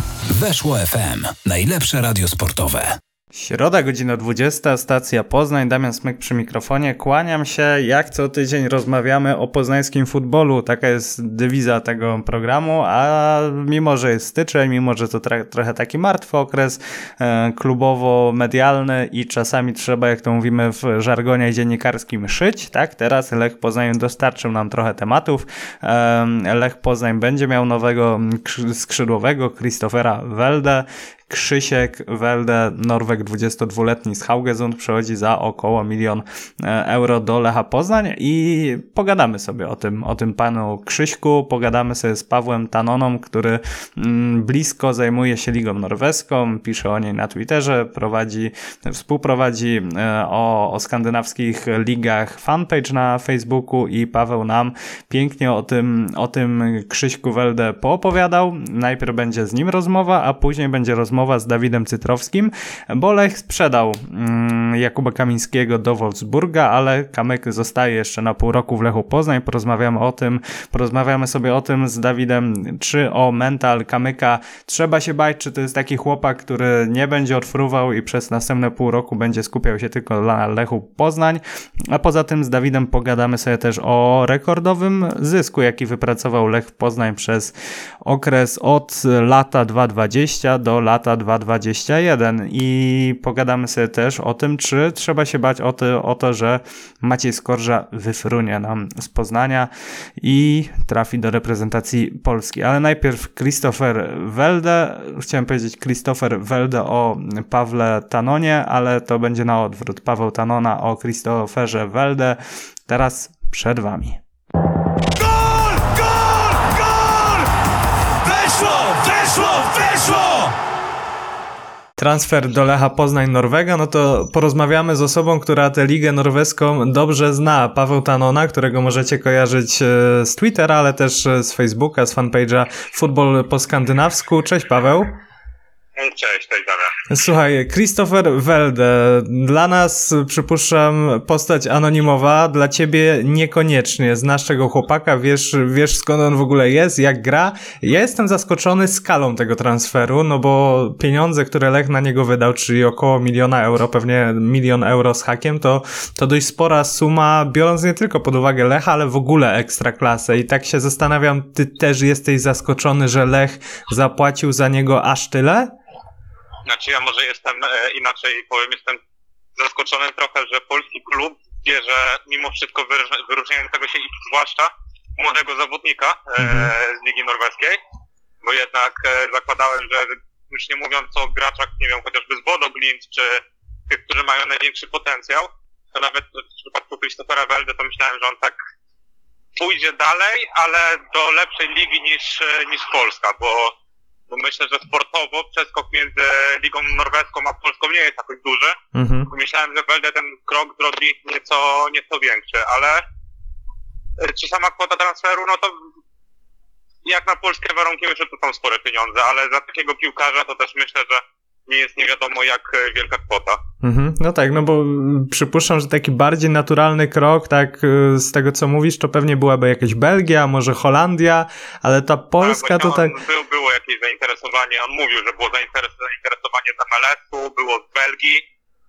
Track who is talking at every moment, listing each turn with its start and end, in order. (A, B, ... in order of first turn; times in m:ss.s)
0:00.3-0:03.0 A
0:03.3-1:54.2 B
1:55.1-1:57.5 B
1:58.2-2:00.5 B
2:02.0-2:15.1 B
2:16.0-2:17.0 C
2:17.1-2:45.7 B
2:46.7-2:49.0 C
2:49.6-2:57.8 C
2:56.4-2:56.7 B
2:58.4-3:08.6 C
3:09.6-3:13.7 C
3:14.3-3:18.8 C
3:18.9-3:19.3 B
3:19.3-3:23.0 C
3:24.2-3:25.7 C
3:27.0-3:33.6 C
3:33.8-3:43.1 B
3:42.4-3:48.4 C